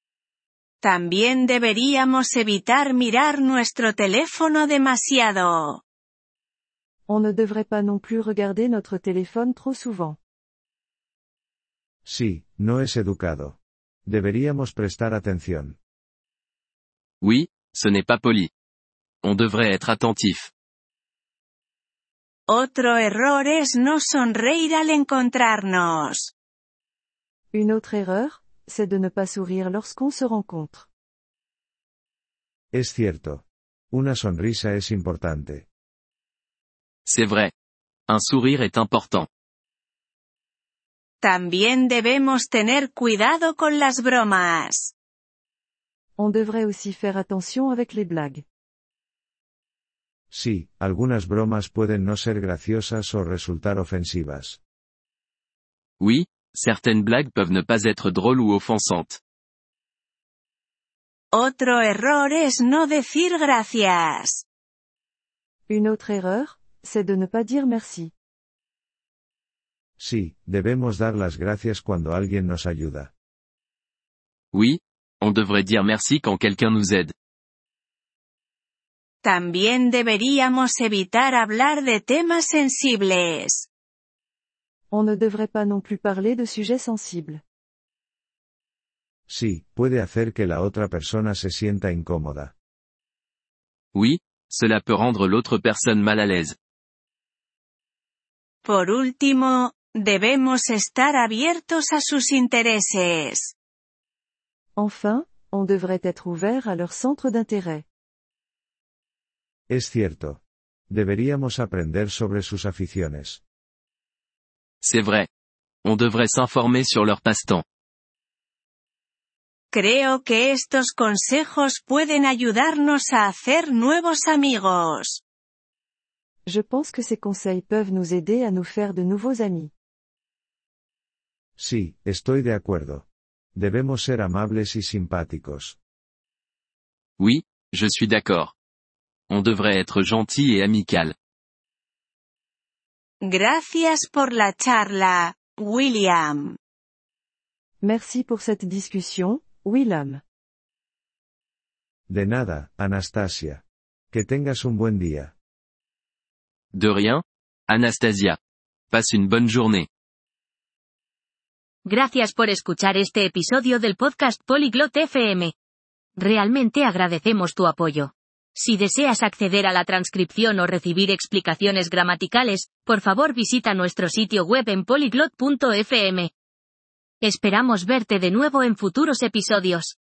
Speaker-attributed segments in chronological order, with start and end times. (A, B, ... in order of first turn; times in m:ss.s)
0:00.8-0:05.8 A
0:07.1-0:10.2 B
0:12.0-0:15.8 C
0:17.2-0:18.5 D
0:19.2-0:20.5 D
0:22.5-0:26.3 A
0:27.5-0:30.9 B
0:32.7-0:35.7 C
0:37.0-0:37.5 D
0:38.1-0:39.3 D
0:41.2-0:44.9 A
0:46.2-0:48.4 B
0:50.3-0:54.6 C
0:56.0-0:59.2 D
1:01.3-1:04.4 A
1:05.7-1:08.1 B
1:10.0-1:13.1 C
1:14.5-1:17.1 D
1:19.2-1:23.7 A
1:24.9-1:27.4 B
1:29.3-1:32.5 C
1:33.9-1:36.6 D
1:38.6-1:43.5 A
1:44.8-1:47.8 B
1:49.7-1:53.4 C
1:54.8-1:55.3 D
1:55.8-1:57.6 D
1:59.7-2:05.2 A
2:06.5-2:09.7 B
2:11.6-2:15.8 C
2:17.2-2:18.5 D
2:19.3-2:21.2 D
2:23.2-2:26.6 A
2:27.8-2:30.2 B
2:32.1-2:35.3 C
2:36.7-2:38.4 D
2:38.9-2:39.9 D
2:41.8-2:45.5 E
2:46.2-2:56.3 E
2:57.2-3:00.0 E